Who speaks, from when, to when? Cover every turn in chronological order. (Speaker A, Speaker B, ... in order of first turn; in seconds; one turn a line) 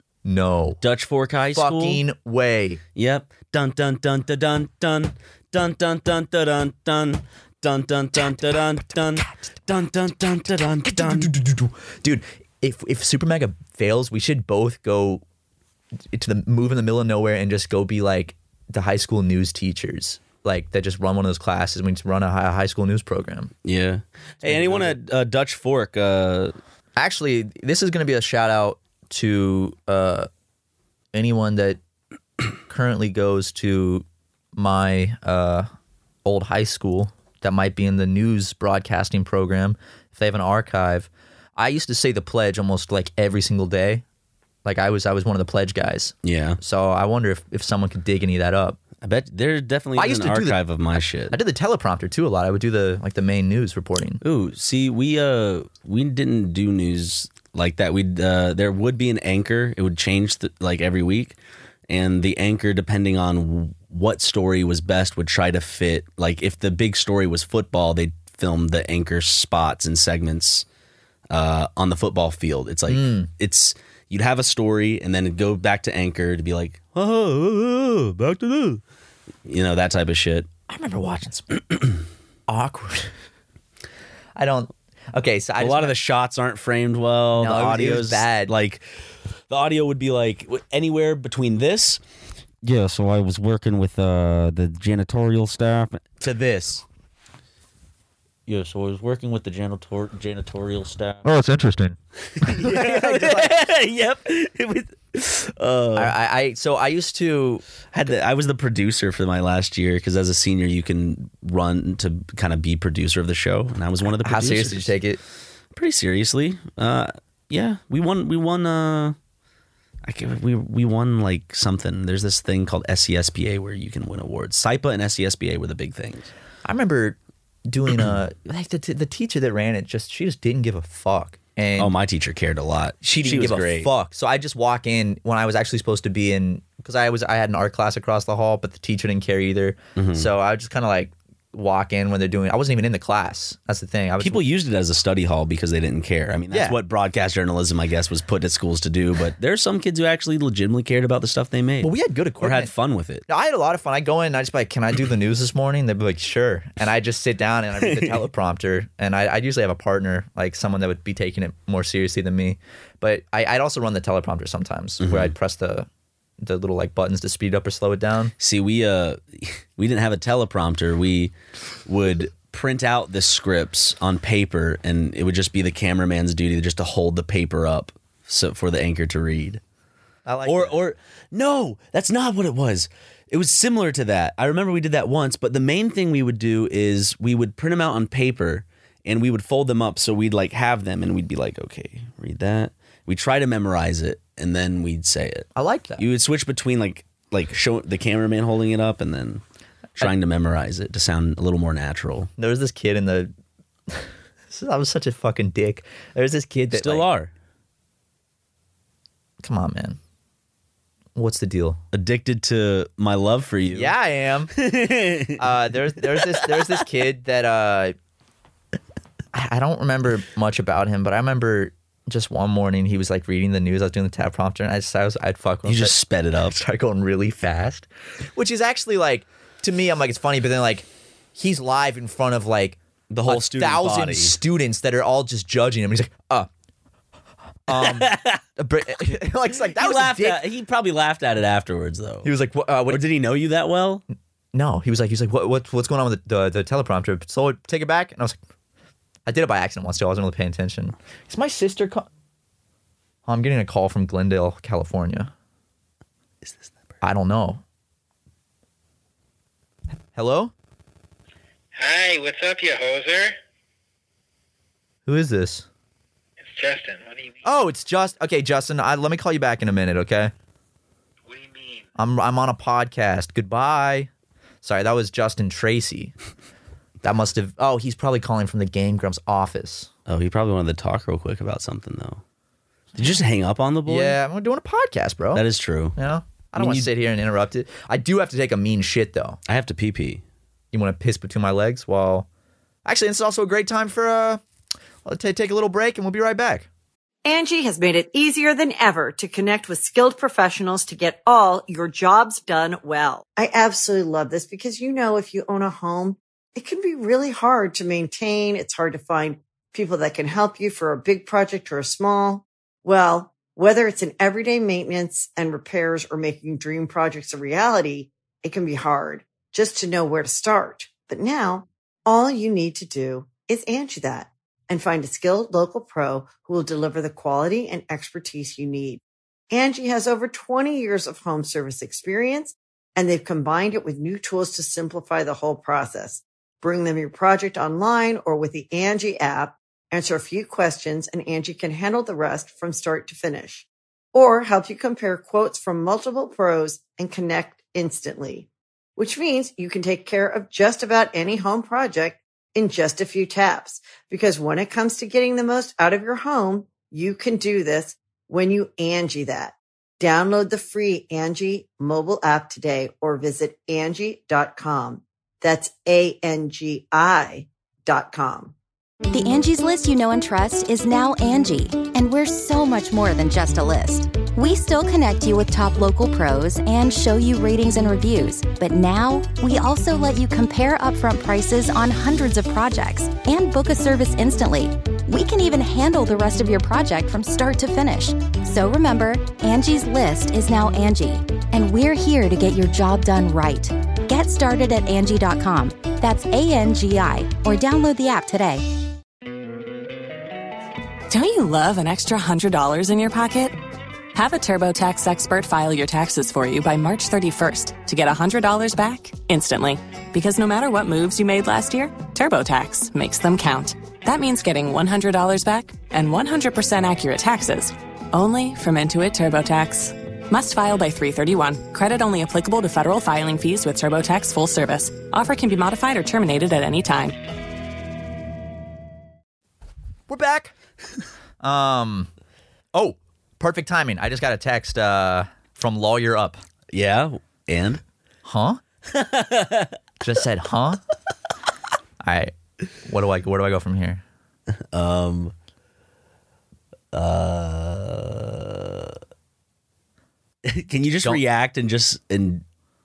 Speaker A: 0.2-0.8
Speaker B: 0.8-2.0
Speaker A: 1.5-2.8
Speaker B: 2.9-11.3
Speaker A: 8.2-9.3
Speaker A: 10.8-15.2
Speaker A: 16.1-23.5
Speaker B: 23.6-26.5
Speaker A: 24.4-25.0
Speaker A: 27.0-30.3
Speaker A: 31.1-31.8
Speaker A: 32.7-35.7
Speaker A: 36.2-44.0
Speaker A: 44.6-48.8
Speaker B: 46.2-46.6
Speaker B: 49.0-51.4
Speaker A: 50.0-50.6
Speaker A: 51.3-54.2
Speaker B: 54.2-61.4
Speaker B: 61.9-70.6
Speaker B: 71.3-78.8
Speaker A: 72.9-73.3
Speaker B: 79.5-80.5
Speaker A: 80.7-81.6
Speaker A: 82.5-83.1
Speaker A: 84.3-86.0
Speaker B: 85.6-88.8
Speaker A: 87.3-88.5
Speaker B: 89.5-92.0
Speaker B: 92.6-96.8
Speaker B: 98.5-101.5
Speaker A: 101.2-103.6
Speaker B: 102.3-106.1
Speaker A: 105.9-107.6
Speaker B: 107.9-114.9
Speaker A: 114.1-115.2
Speaker B: 115.7-119.2
Speaker B: 120.0-126.3
Speaker A: 126.6-127.2
Speaker A: 127.7-131.9
Speaker B: 131.8-133.9
Speaker A: 133.0-144.4
Speaker B: 140.0-140.3
Speaker B: 144.2-153.2
Speaker A: 146.5-146.8
Speaker A: 151.8-152.7
Speaker A: 153.3-165.9
Speaker B: 157.8-158.3
Speaker B: 165.0-165.3
Speaker A: 166.4-168.3
Speaker B: 168.4-171.3
Speaker B: 171.8-179.6
Speaker A: 180.2-180.8
Speaker B: 180.4-199.4
Speaker A: 195.6-196.0
Speaker B: 200.0-202.3
Speaker A: 202.4-203.3
Speaker A: 203.9-207.1
Speaker B: 206.7-207.3
Speaker A: 209.4-210.0
Speaker A: 211.1-211.8
Speaker B: 211.9-213.9
Speaker A: 213.7-214.5
Speaker B: 214.5-215.4
Speaker A: 215.4-217.9
Speaker B: 216.1-216.5
Speaker A: 219.3-236.5
Speaker B: 225.6-226.6
Speaker B: 233.1-234.3
Speaker A: 237.7-240.5
Speaker B: 237.7-238.4
Speaker B: 239.0-242.3
Speaker A: 242.2-243.0
Speaker B: 242.9-244.0
Speaker A: 244.5-248.4
Speaker A: 249.2-252.1
Speaker A: 253.2-255.3
Speaker B: 256.4-256.7
Speaker A: 257.0-257.6
Speaker A: 260.1-260.5
Speaker C: 261.7-263.3
Speaker A: 265.1-265.7
Speaker C: 266.4-267.4
Speaker A: 267.4-270.3
Speaker C: 271.3-271.8
Speaker A: 272.0-274.1
Speaker A: 274.6-276.1
Speaker A: 277.0-279.9
Speaker B: 280.1-282.2
Speaker B: 282.9-284.2
Speaker A: 283.9-285.4
Speaker B: 285.3-286.0
Speaker A: 285.9-289.4
Speaker B: 286.6-286.9
Speaker B: 289.5-290.2
Speaker A: 290.7-292.3
Speaker A: 292.8-294.4
Speaker A: 295.0-296.7
Speaker D: 297.2-368.5
Speaker E: 369.1-398.7
Speaker F: 401.1-403.6
Speaker F: 404.1-427.2
Speaker A: 430.1-430.5
Speaker A: 431.4-432.1
Speaker A: 432.7-436.4
Speaker B: 436.7-437.8
Speaker A: 438.2-438.6
Speaker B: 438.9-439.7
Speaker A: 440.0-440.8
Speaker A: 442.0-444.0
Speaker B: 444.7-445.3
Speaker B: 446.9-449.0
Speaker B: 450.4-452.4